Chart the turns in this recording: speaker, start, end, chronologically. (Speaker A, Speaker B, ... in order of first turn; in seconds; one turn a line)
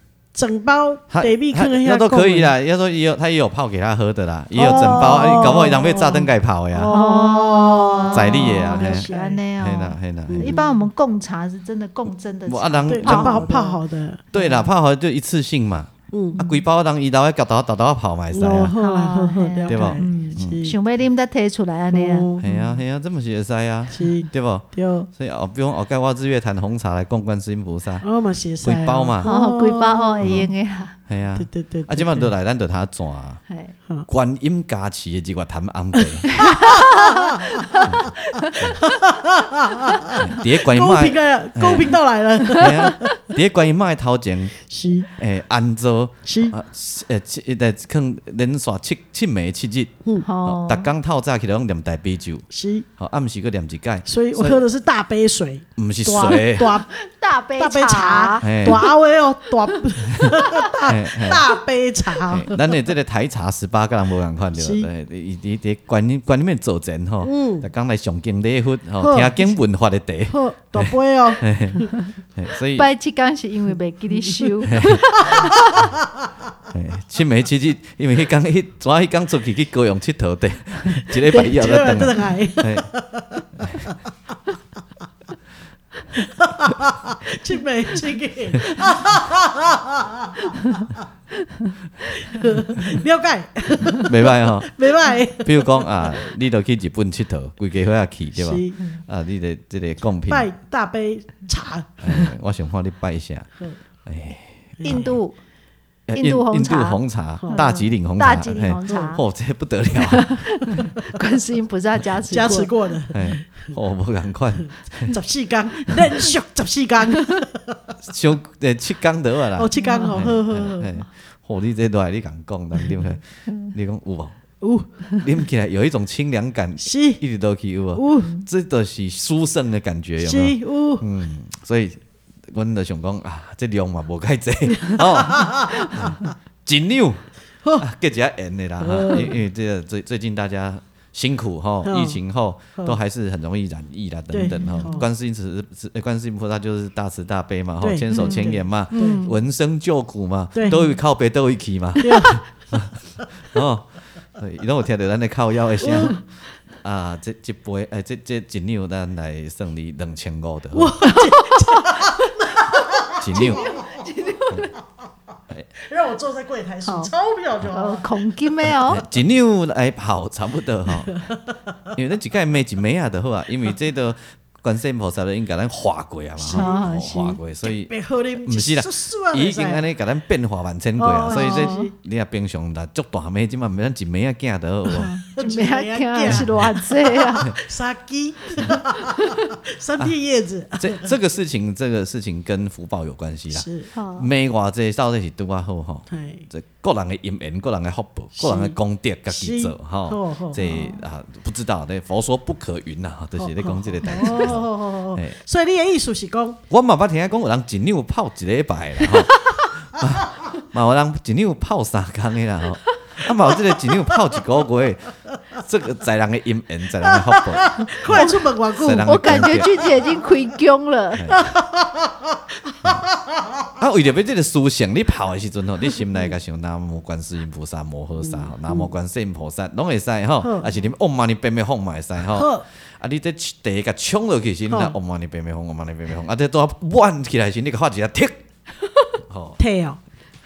Speaker A: 0.3-2.5
Speaker B: 1.1-7.0
Speaker A: 4.5-9.4
Speaker C: 6.9-13.8
Speaker B: 8.1-10.6
Speaker A: 10.3-10.7
Speaker B: 12.5-13.6
Speaker A: 12.9-14.3
Speaker B: 14.3-18.8
Speaker C: 14.4-14.7
Speaker A: 16.1-16.4
Speaker C: 16.4-16.6
Speaker A: 18.3-20.8
Speaker C: 18.7-22.8
Speaker B: 19.7-20.6
Speaker A: 21.9-22.5
Speaker B: 22.4-28.1
Speaker A: 23.9-25.1
Speaker A: 28.0-30.5
Speaker B: 28.6-29.3
Speaker C: 29.2-31.0
Speaker B: 30.2-30.5
Speaker B: 31.1-33.4
Speaker A: 31.4-32.3
Speaker C: 33.5-33.7
Speaker B: 34.1-36.4
Speaker A: 36.0-37.6
Speaker C: 36.3-38.8
Speaker B: 37.9-38.9
Speaker A: 38.6-43.1
Speaker C: 39.9-40.2
Speaker B: 40.1-42.0
Speaker C: 42.5-43.1
Speaker B: 42.5-44.6
Speaker A: 44.6-45.1
Speaker B: 45.2-49.9
Speaker A: 46.2-46.5
Speaker C: 50.2-50.9
Speaker B: 50.5-52.5
Speaker A: 52.5-52.9
Speaker B: 53.0-54.6
Speaker A: 54.1-56.9
Speaker B: 55.8-56.8
Speaker C: 56.9-58.9
Speaker A: 57.6-62.6
Speaker B: 58.4-58.8
Speaker C: 59.6-60.9
Speaker B: 60.1-61.4
Speaker B: 62.2-72.9
Speaker A: 64.5-64.9
Speaker A: 67.2-67.7
Speaker A: 69.0-69.6
Speaker A: 70.3-71.9
Speaker C: 72.7-75.8
Speaker B: 74.7-75.1
Speaker A: 75.2-75.8
Speaker B: 76.7-82.9
Speaker A: 81.4-83.5
Speaker B: 83.6-83.9
Speaker A: 86.1-91.0
Speaker A: 92.1-96.1
Speaker B: 93.9-94.8
Speaker B: 95.4-100.5
Speaker A: 98.3-98.8
Speaker A: 100.3-102.3
Speaker B: 102.0-103.5
Speaker B: 104.0-105.1
Speaker A: 104.8-105.1
Speaker C: 104.8-105.4
Speaker B: 106.1-110.4
Speaker C: 106.1-109.2
Speaker A: 107.4-107.7
Speaker A: 108.9-109.1
Speaker C: 110.0-112.7
Speaker A: 112.3-113.8
Speaker B: 113.1-115.2
Speaker A: 114.6-118.0
Speaker B: 118.1-124.4
Speaker A: 119.6-120.9
Speaker C: 119.8-120.2
Speaker A: 124.6-124.9
Speaker B: 125.2-156.2
Speaker A: 126.8-127.2
Speaker A: 127.9-128.4
Speaker A: 130.2-131.1
Speaker A: 134.9-136.1
Speaker A: 138.8-139.4
Speaker A: 141.8-142.2
Speaker A: 144.3-145.1
Speaker C: 144.5-145.0
Speaker A: 147.8-149.3
Speaker C: 148.1-149.4
Speaker A: 150.6-150.9
Speaker A: 152.0-152.4
Speaker A: 155.8-156.2
Speaker B: 156.8-161.0
Speaker A: 160.7-164.4
Speaker C: 161.0-162.1
Speaker B: 163.2-163.7
Speaker C: 163.3-164.7
Speaker A: 165.8-168.1
Speaker C: 166.9-167.1
Speaker C: 167.7-169.0
Speaker B: 168.9-171.2
Speaker A: 170.9-171.7
Speaker B: 171.9-185.1
Speaker A: 176.4-176.8
Speaker C: 176.5-177.4
Speaker A: 177.6-179.8
Speaker A: 181.0-181.9
Speaker C: 181.3-181.9
Speaker A: 184.9-191.1
Speaker C: 185.0-187.6
Speaker C: 188.9-189.5
Speaker B: 190.8-205.4
Speaker A: 193.5-193.9
Speaker C: 193.9-194.3
Speaker A: 196.1-196.5
Speaker A: 198.4-198.8
Speaker A: 199.3-200.7
Speaker C: 200.6-201.0
Speaker A: 203.4-206.6
Speaker B: 206.7-220.0
Speaker C: 209.3-209.7
Speaker A: 213.5-214.4
Speaker A: 217.0-220.1
Speaker C: 218.1-218.4
Speaker C: 219.0-221.3
Speaker B: 221.2-221.5
Speaker A: 221.3-223.7
Speaker B: 223.8-238.4
Speaker A: 228.3-228.9
Speaker A: 230.4-230.7
Speaker A: 232.3-232.6
Speaker A: 234.7-234.9
Speaker B: 239.2-239.6
Speaker A: 239.6-240.0